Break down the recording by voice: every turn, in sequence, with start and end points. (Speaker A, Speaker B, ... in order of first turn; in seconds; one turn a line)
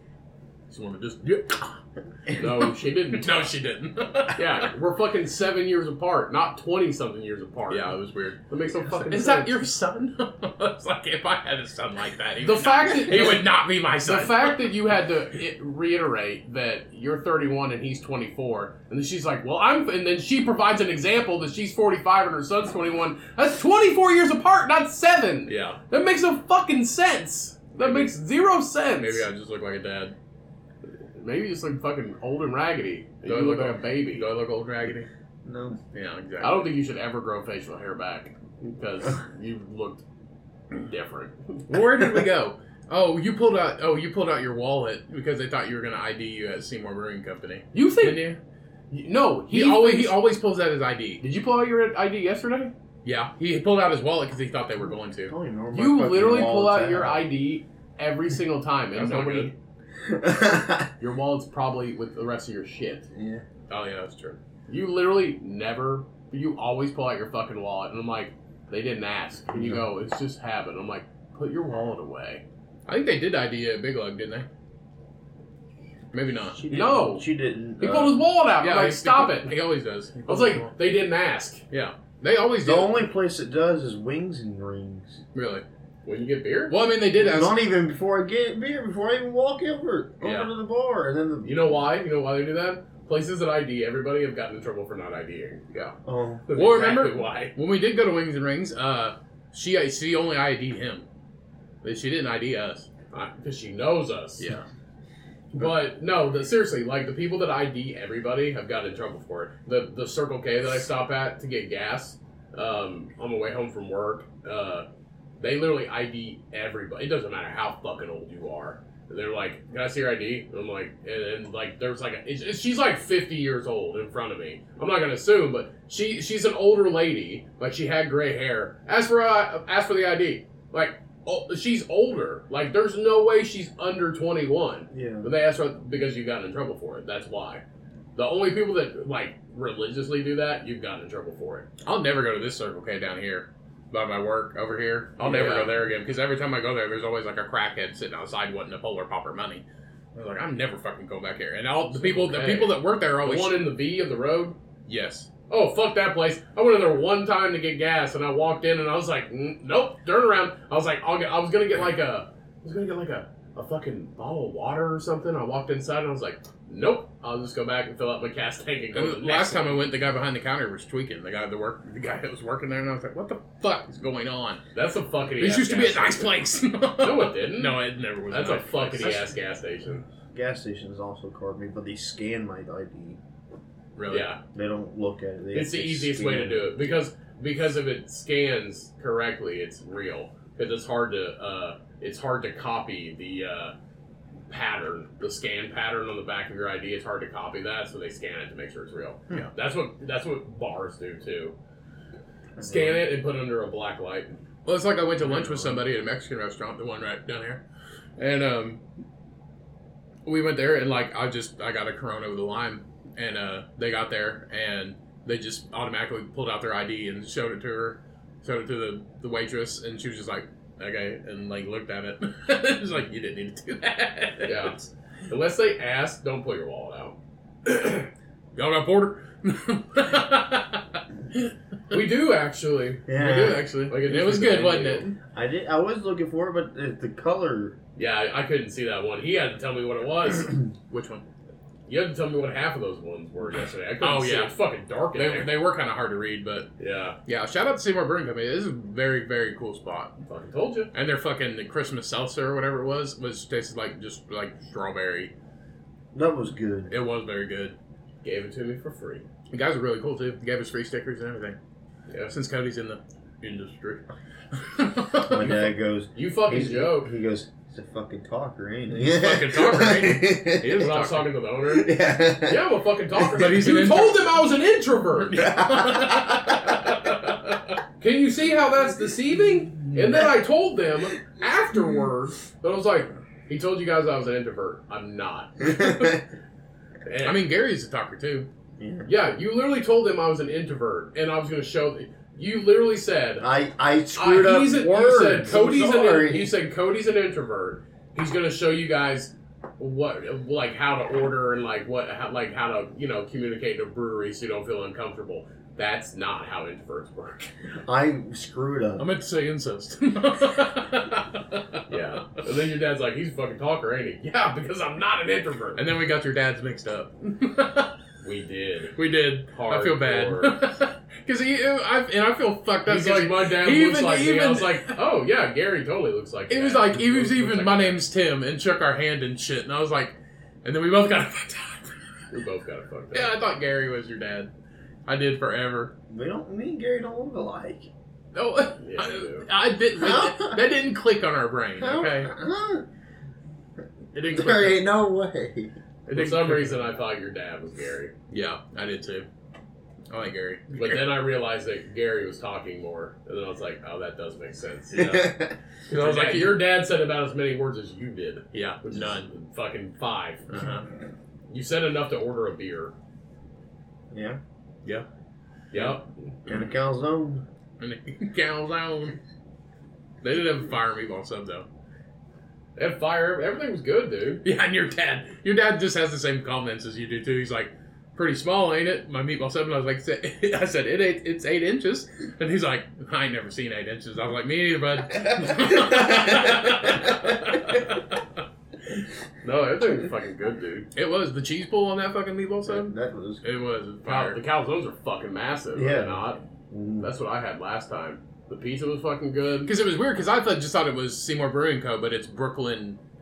Speaker A: 0.7-1.8
Speaker B: 2.3-3.5
Speaker A: 2.7-4.7
Speaker B: 4.3-8.0
Speaker A: 7.7-8.4
Speaker B: 8.5-9.6
Speaker A: 9.1-14.7
Speaker B: 12.4-13.5
Speaker B: 14.1-29.3
Speaker A: 25.5-25.8
Speaker A: 27.8-28.1
Speaker A: 29.0-30.1
Speaker B: 31.2-34.3
Speaker A: 33.2-35.1
Speaker C: 35.5-35.8
Speaker A: 35.9-36.7
Speaker B: 36.4-40.0
Speaker B: 40.8-41.8
Speaker A: 41.7-48.4
Speaker B: 47.7-48.2
Speaker B: 48.9-50.2
Speaker A: 49.5-51.2
Speaker B: 51.2-52.7
Speaker A: 53.0-55.3
Speaker C: 55.3-57.3
Speaker B: 55.7-59.5
Speaker A: 59.0-59.5
Speaker C: 60.0-60.9
Speaker B: 61.0-63.1
Speaker C: 63.1-63.5
Speaker A: 63.7-64.4
Speaker B: 64.7-72.4
Speaker C: 69.5-69.8
Speaker A: 72.9-74.5
Speaker A: 76.1-77.0
Speaker C: 76.6-78.2
Speaker B: 76.7-77.3
Speaker B: 77.8-79.5
Speaker A: 78.6-80.7
Speaker B: 80.3-81.7
Speaker A: 81.7-83.0
Speaker C: 82.6-85.2
Speaker A: 85.3-85.6
Speaker B: 86.0-86.7
Speaker A: 86.7-87.6
Speaker C: 87.2-91.8
Speaker A: 90.2-90.5
Speaker B: 91.4-97.5
Speaker C: 96.0-96.5
Speaker A: 96.5-101.1
Speaker A: 101.8-102.9
Speaker B: 103.1-104.5
Speaker A: 104.4-104.7
Speaker B: 105.5-114.9
Speaker B: 115.4-137.6
Speaker C: 134.9-135.3
Speaker B: 138.2-141.7
Speaker A: 141.8-149.6
Speaker B: 145.2-145.7
Speaker A: 150.2-153.7
Speaker B: 151.9-154.6
Speaker A: 154.9-155.3
Speaker B: 155.5-169.8
Speaker A: 168.9-174.6
Speaker B: 174.7-176.4
Speaker A: 175.4-179.3
Speaker B: 177.0-177.8
Speaker B: 178.3-180.0
Speaker C: 180.3-183.2
Speaker A: 184.0-184.3
Speaker B: 184.1-184.4
Speaker C: 184.5-186.7
Speaker B: 185.5-193.7
Speaker B: 194.5-201.6
Speaker C: 202.6-203.0
Speaker B: 202.6-204.3
Speaker A: 204.7-207.6
Speaker C: 205.4-205.7
Speaker A: 208.2-208.8
Speaker A: 210.3-224.9
Speaker B: 224.4-224.8
Speaker B: 225.3-227.2
Speaker A: 228.6-232.0
Speaker B: 231.9-235.1
Speaker C: 233.1-233.7
Speaker A: 233.2-235.2
Speaker C: 235.3-237.8
Speaker B: 238.0-240.6
Speaker A: 240.9-241.2
Speaker B: 241.9-245.5
Speaker A: 244.0-244.5
Speaker A: 245.1-246.7
Speaker B: 246.8-247.2
Speaker A: 247.3-250.2
Speaker B: 250.3-250.9
Speaker A: 250.9-255.3
Speaker C: 256.1-256.9
Speaker A: 256.9-257.8
Speaker B: 258.2-259.2
Speaker A: 259.5-261.6
Speaker A: 262.3-265.7
Speaker C: 265.2-270.9
Speaker B: 266.1-267.1
Speaker A: 269.0-271.3
Speaker B: 270.8-275.4
Speaker C: 271.6-273.7
Speaker A: 273.3-274.4
Speaker A: 275.2-277.8
Speaker C: 275.3-276.7
Speaker B: 278.0-286.2
Speaker C: 285.6-286.2
Speaker B: 287.1-287.4
Speaker A: 287.2-288.5
Speaker C: 288.8-289.1
Speaker B: 289.1-293.5
Speaker C: 293.4-296.5
Speaker B: 294.2-307.5
Speaker C: 307.9-309.1
Speaker A: 309.0-311.8
Speaker B: 311.9-315.8
Speaker A: 315.8-317.9
Speaker B: 318.2-318.9
Speaker A: 318.9-325.0
Speaker B: 319.5-320.6
Speaker B: 322.9-328.0
Speaker A: 326.5-332.0
Speaker B: 332.3-333.3
Speaker A: 333.1-334.5
Speaker A: 335.1-335.9
Speaker C: 336.1-337.9
Speaker A: 338.3-342.3
Speaker B: 338.8-339.5
Speaker C: 340.0-340.6
Speaker C: 341.8-342.9
Speaker A: 344.1-344.8
Speaker C: 344.2-345.7
Speaker A: 346.1-346.8
Speaker B: 346.1-348.1
Speaker A: 348.3-349.3
Speaker A: 350.1-351.1
Speaker B: 350.8-355.4
Speaker C: 354.9-355.6
Speaker A: 355.9-356.6
Speaker B: 355.9-360.5
Speaker A: 358.5-359.3
Speaker A: 360.5-360.9
Speaker B: 361.5-362.9
Speaker C: 364.1-364.4
Speaker B: 365.7-366.1
Speaker C: 366.5-367.5
Speaker A: 367.8-369.2
Speaker A: 370.2-371.7
Speaker B: 372.8-374.4
Speaker A: 374.4-388.2
Speaker C: 385.1-387.6
Speaker B: 389.4-390.9
Speaker A: 390.9-394.4
Speaker C: 392.7-393.4
Speaker B: 394.1-396.4
Speaker C: 395.8-397.1
Speaker B: 397.0-399.7
Speaker A: 399.7-403.0